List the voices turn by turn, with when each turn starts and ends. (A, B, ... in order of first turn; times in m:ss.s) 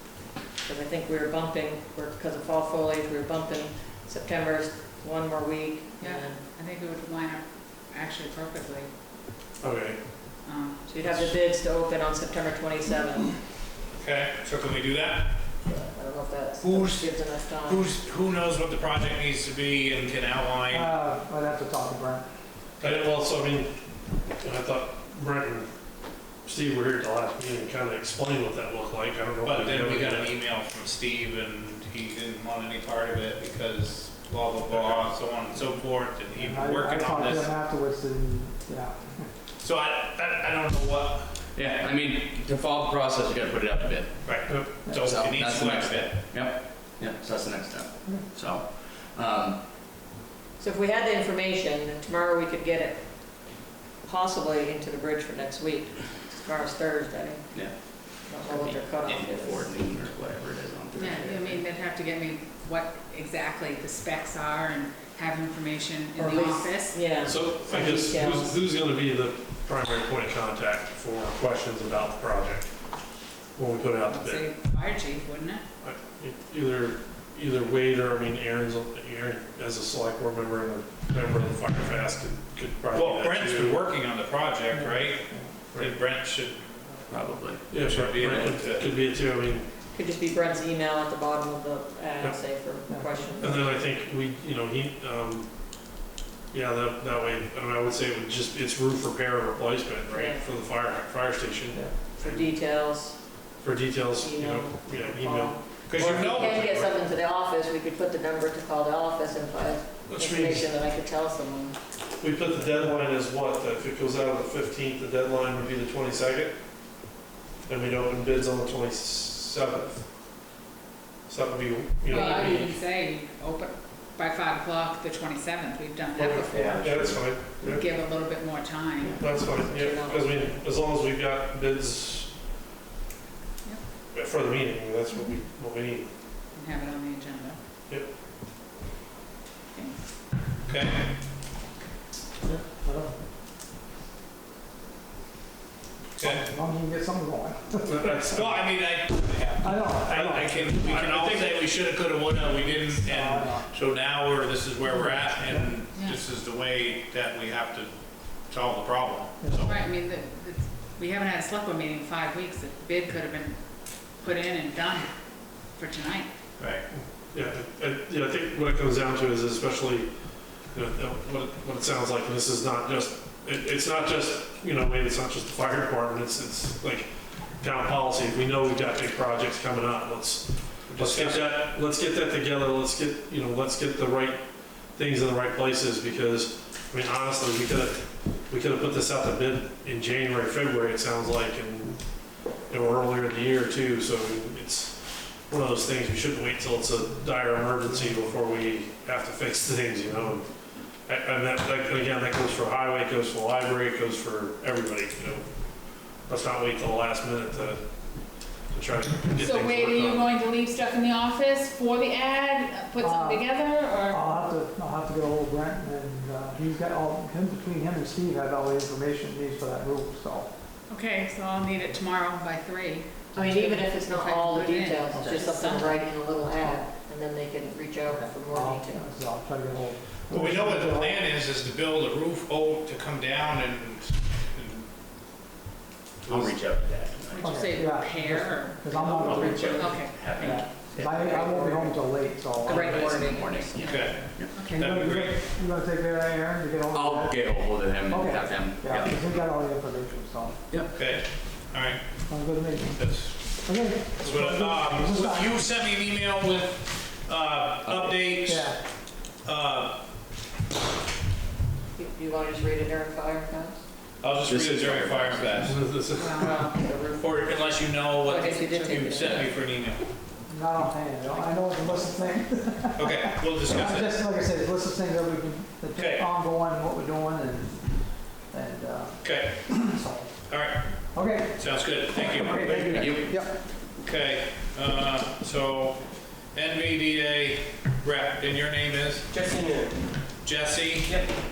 0:00.6-0:06.5 A
0:06.0-0:08.9 B
0:09.6-0:10.1 C
0:10.4-0:10.8 B
0:10.9-0:13.4 A
0:11.0-0:11.3 C
0:13.9-0:15.5 D
0:15.6-0:17.9 A
0:16.6-0:20.9 D
0:20.7-0:22.2 E
0:22.8-0:23.0 D
0:22.8-0:23.7 C
0:24.4-0:25.7 C
0:26.4-0:30.3 C
0:29.4-0:37.5 D
0:34.7-0:35.0 C
0:36.4-0:39.3 E
0:39.6-0:41.5 D
0:41.5-0:44.4 F
0:44.2-0:46.2 D
0:44.9-0:49.7 F
0:50.6-0:59.7 A
0:57.5-1:01.6 F
1:00.9-1:07.1 B
1:01.0-1:01.3 A
1:06.2-1:08.6 A
1:07.2-1:12.8 C
1:13.5-1:14.5 C
1:14.1-1:15.6 B
1:15.8-1:23.8 C
1:22.9-1:26.7 D
1:24.7-1:25.6 E
1:27.1-1:27.7 F
1:27.7-1:29.7 C
1:27.7-1:28.9 D
1:29.9-1:33.8 A
1:32.9-1:33.2 E
1:33.4-1:35.9 C
1:36.5-1:42.5 C
1:40.1-1:40.5 A
1:42.2-1:43.2 A
1:43.6-1:46.2 C
1:44.2-1:51.8 A
1:45.9-1:46.9 D
1:50.1-1:50.7 C
1:52.2-1:56.6 C
1:57.6-2:00.0 C
2:01.3-2:02.7 C
2:02.1-2:06.8 B
2:02.1-2:02.6 A
2:06.2-2:07.8 C
2:06.5-2:07.8 F
2:07.6-2:09.2 B
2:09.1-2:12.4 C
2:09.3-2:10.6 A
2:14.1-2:16.1 C
2:16.5-2:17.6 B
2:20.6-2:21.1 D
2:22.5-2:23.2 E
2:26.2-2:26.4 D
2:26.2-2:28.2 E
2:27.9-2:28.6 C
2:28.0-2:37.9 D
2:29.6-2:31.3 E
2:32.6-2:33.7 E
2:34.9-2:35.7 E
2:35.9-2:36.2 B
2:38.5-2:39.8 D
2:39.4-2:39.7 E
2:39.6-2:46.3 B
2:46.6-2:46.8 D
2:47.3-2:50.1 C
2:50.7-3:12.0 C
3:00.9-3:01.6 D
3:12.7-3:20.5 C
3:21.0-3:25.6 C
3:26.2-3:27.9 C
3:28.7-3:30.3 C
3:29.3-3:34.2 B
3:33.0-3:40.5 E
3:40.9-3:46.0 B
3:43.3-3:49.1 A
3:48.1-3:51.2 E
3:50.3-3:54.9 D
3:56.2-3:57.8 F
3:56.3-3:56.6 D
3:57.3-4:00.8 B
3:57.4-4:03.3 E
3:59.0-4:01.3 F
4:01.2-4:02.1 A
4:02.6-4:04.7 F
4:02.6-4:04.1 A
4:03.5-4:04.9 B
4:03.8-4:05.4 D
4:04.2-4:10.7 E
4:06.9-4:09.2 F
4:10.7-4:11.0 F
4:10.9-4:12.0 D
4:12.3-4:15.5 E
4:12.9-4:13.6 D
4:14.2-4:18.7 D
4:17.8-4:18.2 F
4:18.4-4:18.8 E
4:19.4-4:20.0 D
4:22.0-4:23.8 A
4:24.2-4:25.8 D
4:24.4-4:25.9 F
4:25.6-4:26.6 C
4:26.1-4:26.8 B
4:26.3-4:29.5 A
4:27.1-4:30.1 D
4:28.5-4:29.5 B
4:29.1-4:29.5 F
4:30.5-4:40.4 E
4:33.0-4:34.2 D
4:35.9-4:36.2 D
4:39.2-4:39.9 D
4:40.5-4:42.8 D
4:41.1-4:43.6 E
4:42.6-4:43.4 F
4:44.0-4:49.3 D
4:50.4-4:51.2 D